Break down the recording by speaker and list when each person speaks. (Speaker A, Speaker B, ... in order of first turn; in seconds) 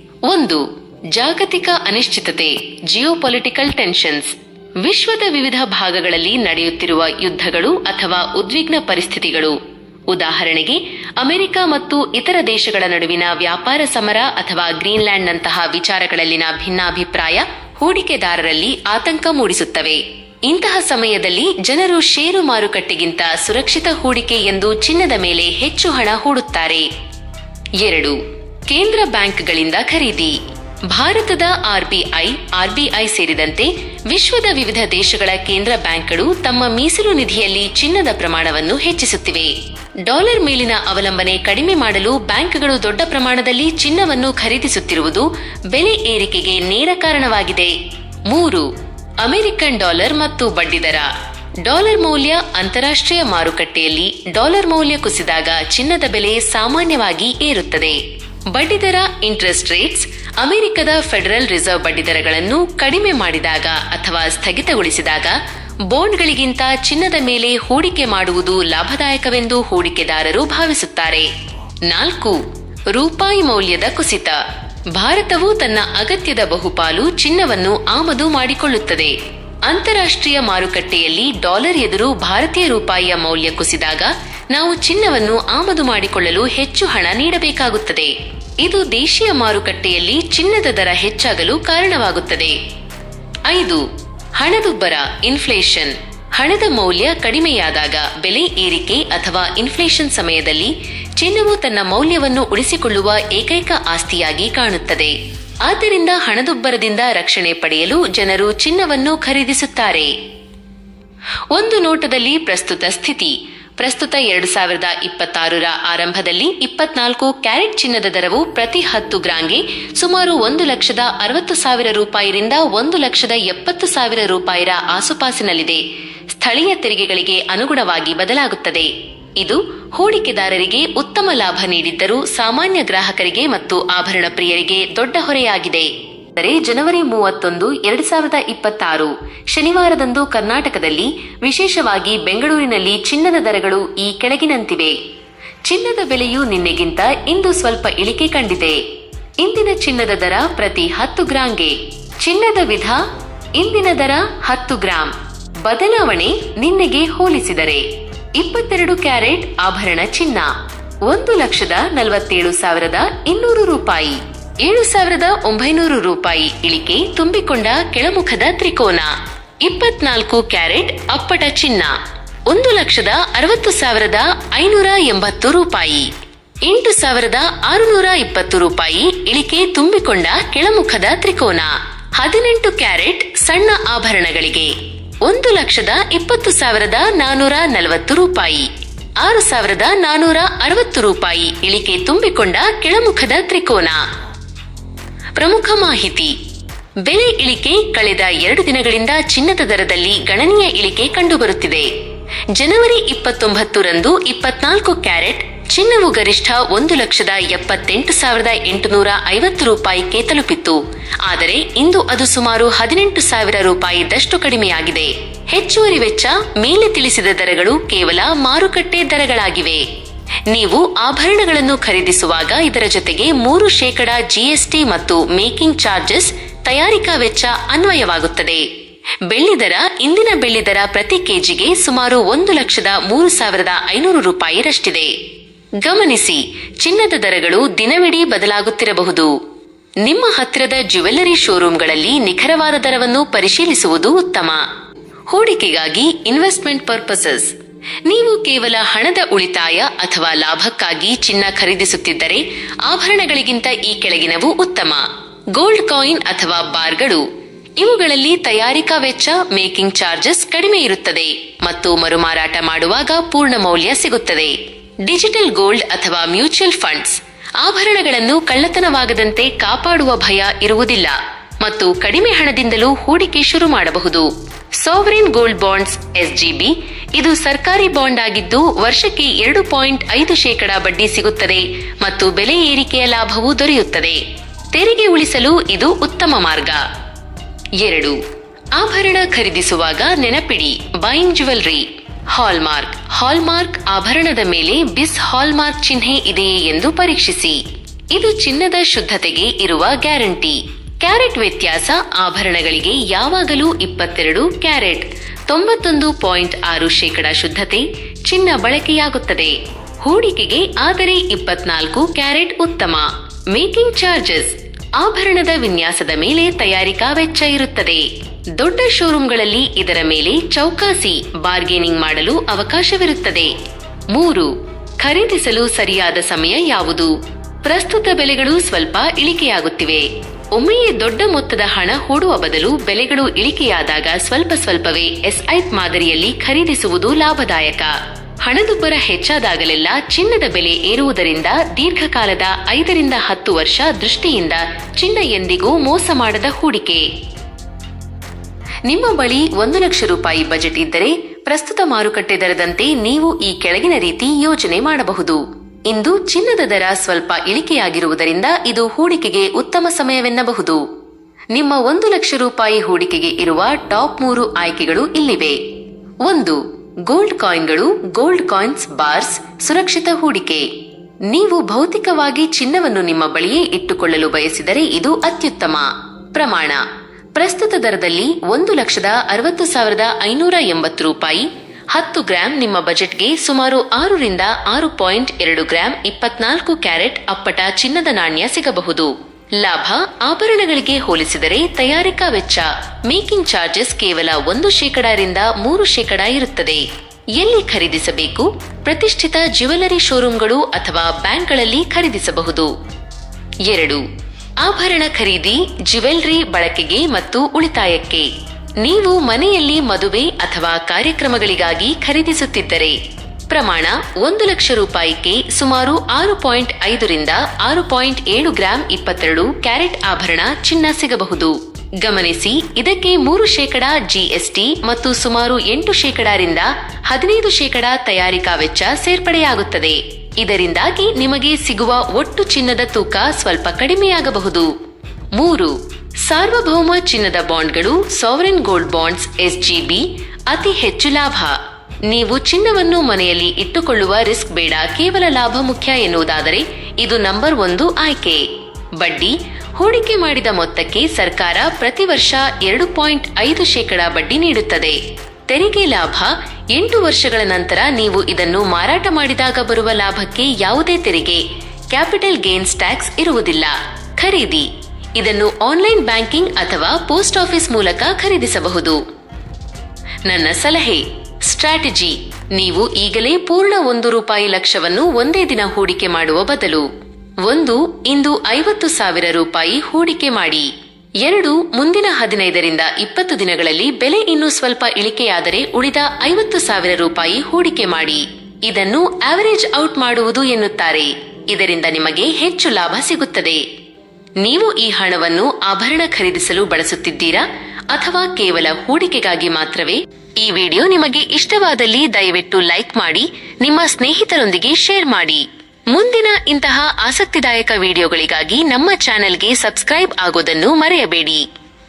Speaker A: 0.3-0.6, 1.1-9.6, 10.1-26.9, 27.8-30.4, 30.9-39.5, 40.0-47.7, 48.3-48.7, 49.2-51.1, 51.6-58.0, 58.5-65.4, 65.9-71.3, 71.8-72.4, 72.9-74.4, 75.0-79.1, 79.7-92.5, 93.5-93.8, 94.4-105.1, 105.7-110.1, 111.5-145.0, 145.6-148.8, 149.4-153.0, 153.6-155.1, 155.6-157.8, 158.3-160.5, 161.1-169.1, 169.6-171.9, 172.5-176.1, 176.7-184.7, 185.2-188.7, 189.2-194.0, 195.4-196.3, 197.1-201.9, 202.5-219.8, 220.5-228.6, 229.3-235.1, 235.8-239.3, 240.0-244.6, 245.3-247.5, 248.1-255.0, 255.5-257.2, 257.8-274.3, 274.8-284.2, 284.7-286.8, 287.8-288.2, 288.8-297.6, 298.1-318.1, 318.6-323.5, 324.1-327.1, 327.6-347.1, 348.9-360.8, 361.5-365.6, 366.2-370.7, 371.3-376.8, 377.4-396.8, 397.4-402.7, 403.6-404.0, 404.6-408.3, 408.8-413.0, 413.5-434.7, 435.4-435.7, 436.2-448.4, 449.0-469.0, 470.2-476.9, 477.4-480.7, 481.2-493.6, 494.4-511.4